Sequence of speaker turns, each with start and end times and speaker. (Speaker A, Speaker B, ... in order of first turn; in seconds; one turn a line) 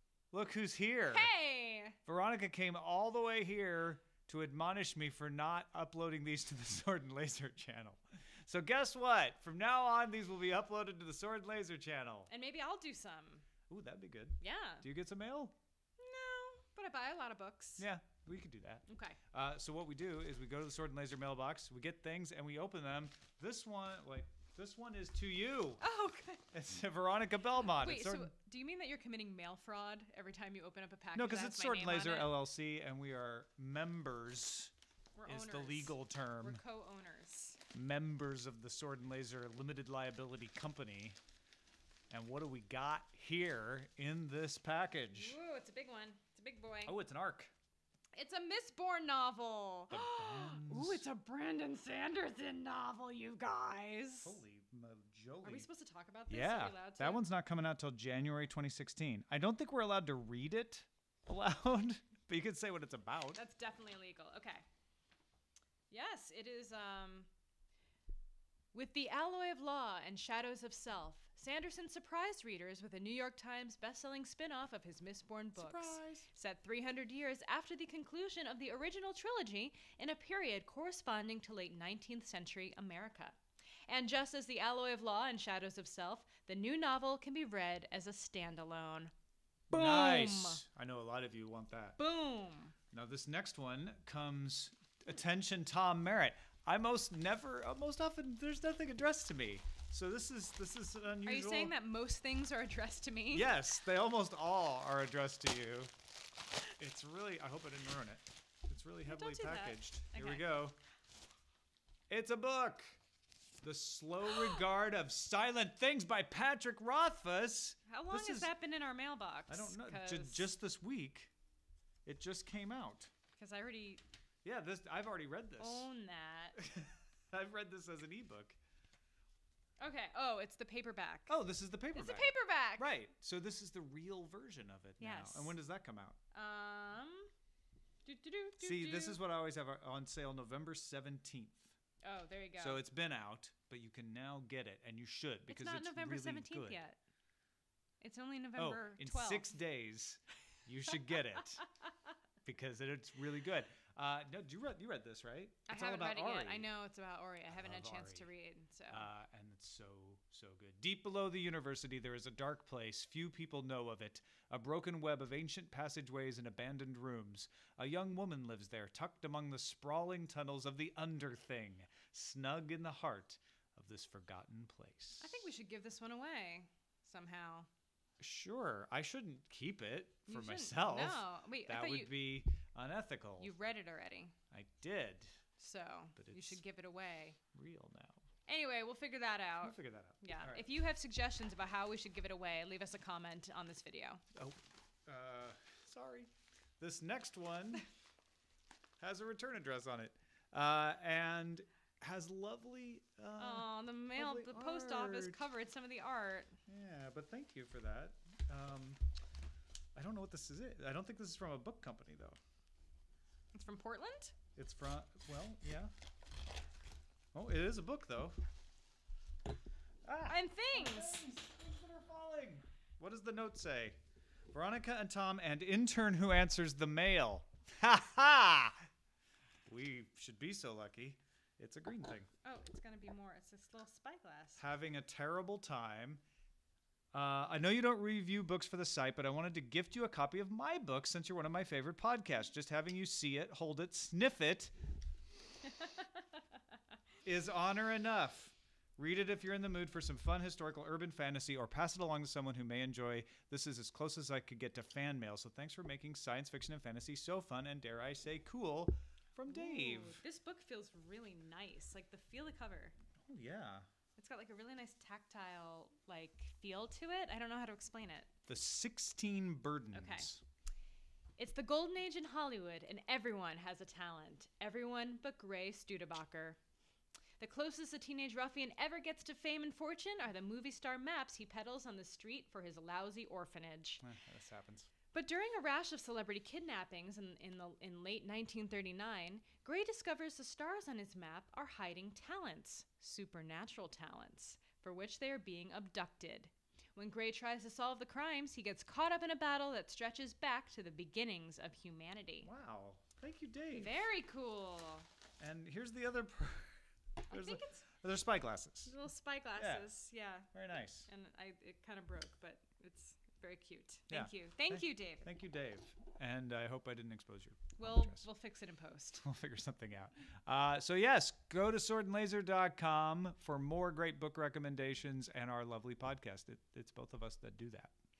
Speaker A: 0.3-1.3
Speaker B: 1.1-2.0
Speaker A: 2.0-12.3
Speaker B: 12.3-13.4
Speaker A: 13.7-15.5
Speaker B: 14.4-14.8
Speaker B: 16.0-17.8
Speaker A: 17.8-25.8
Speaker B: 18.9-19.2
Speaker B: 25.8-26.4
Speaker A: 26.5-28.3
Speaker B: 27.6-32.4
Speaker A: 31.1-34.7
Speaker B: 35.1-37.6
Speaker A: 35.2-36.6
Speaker A: 37.7-41.2
Speaker A: 42.1-45.3
Speaker B: 45.1-46.9
Speaker A: 46.9-47.5
Speaker B: 48.1-54.4
Speaker A: 49.9-51.0
Speaker A: 54.2-55.7
Speaker B: 55.4-57.2
Speaker A: 56.3-63.4
Speaker B: 63.3-64.6
Speaker B: 65.9-67.3
Speaker B: 68.7-89.1
Speaker A: 75.5-76.3
Speaker B: 89.7-90.6
Speaker A: 89.7-92.0
Speaker B: 92.0-92.7
Speaker A: 92.9-101.7
Speaker B: 101.2-103.5
Speaker A: 103.3-105.9
Speaker A: 106.8-110.8
Speaker B: 109.0-110.5
Speaker A: 112.1-113.0
Speaker A: 113.6-118.5
Speaker B: 117.9-120.5
Speaker A: 119.5-121.3
Speaker A: 122.0-123.1
Speaker B: 123.3-124.0
Speaker A: 124.4-125.9
Speaker B: 125.6-126.6
Speaker A: 126.6-128.6
Speaker B: 129.8-131.4
Speaker A: 131.3-136.2
Speaker B: 131.9-132.9
Speaker B: 135.0-135.6
Speaker B: 136.3-137.3
Speaker B: 138.0-139.2
Speaker A: 138.6-141.7
Speaker B: 142.0-142.8
Speaker A: 142.6-146.8
Speaker B: 145.5-147.0
Speaker B: 148.0-149.5
Speaker A: 148.6-151.7
Speaker A: 152.4-156.7
Speaker B: 155.7-159.1
Speaker A: 157.5-158.3
Speaker A: 158.9-175.4
Speaker B: 175.2-177.7
Speaker A: 178.2-183.5
Speaker B: 180.3-182.2
Speaker B: 183.4-184.3
Speaker A: 184.5-185.4
Speaker B: 185.6-187.4
Speaker A: 186.2-186.6
Speaker A: 187.5-188.2
Speaker B: 188.5-194.2
Speaker A: 189.6-190.7
Speaker A: 194.3-197.9
Speaker A: 199.0-205.4
Speaker B: 203.4-206.6
Speaker A: 206.7-209.0
Speaker A: 209.9-212.4
Speaker B: 213.5-214.3
Speaker A: 214.5-215.9
Speaker A: 217.3-218.4
Speaker A: 220.0-224.0
Speaker B: 220.2-221.2
Speaker A: 224.5-228.9
Speaker A: 229.7-232.3
Speaker B: 232.4-234.6
Speaker A: 234.6-236.2
Speaker A: 237.1-244.7
Speaker A: 247.2-260.2
Speaker B: 259.5-262.9
Speaker A: 263.3-263.9
Speaker B: 264.1-268.3
Speaker A: 268.5-270.4
Speaker B: 269.9-270.3
Speaker B: 271.4-276.6
Speaker B: 277.4-284.0
Speaker A: 284.0-284.9
Speaker B: 285.1-302.5
Speaker A: 302.4-304.0
Speaker B: 303.7-305.1
Speaker A: 305.4-306.8
Speaker B: 307.3-307.8
Speaker A: 307.3-308.9
Speaker B: 308.8-310.5
Speaker A: 309.6-309.9
Speaker A: 310.5-311.1
Speaker B: 311.1-315.3
Speaker A: 314.1-318.2
Speaker B: 317.8-319.2
Speaker A: 319.2-327.9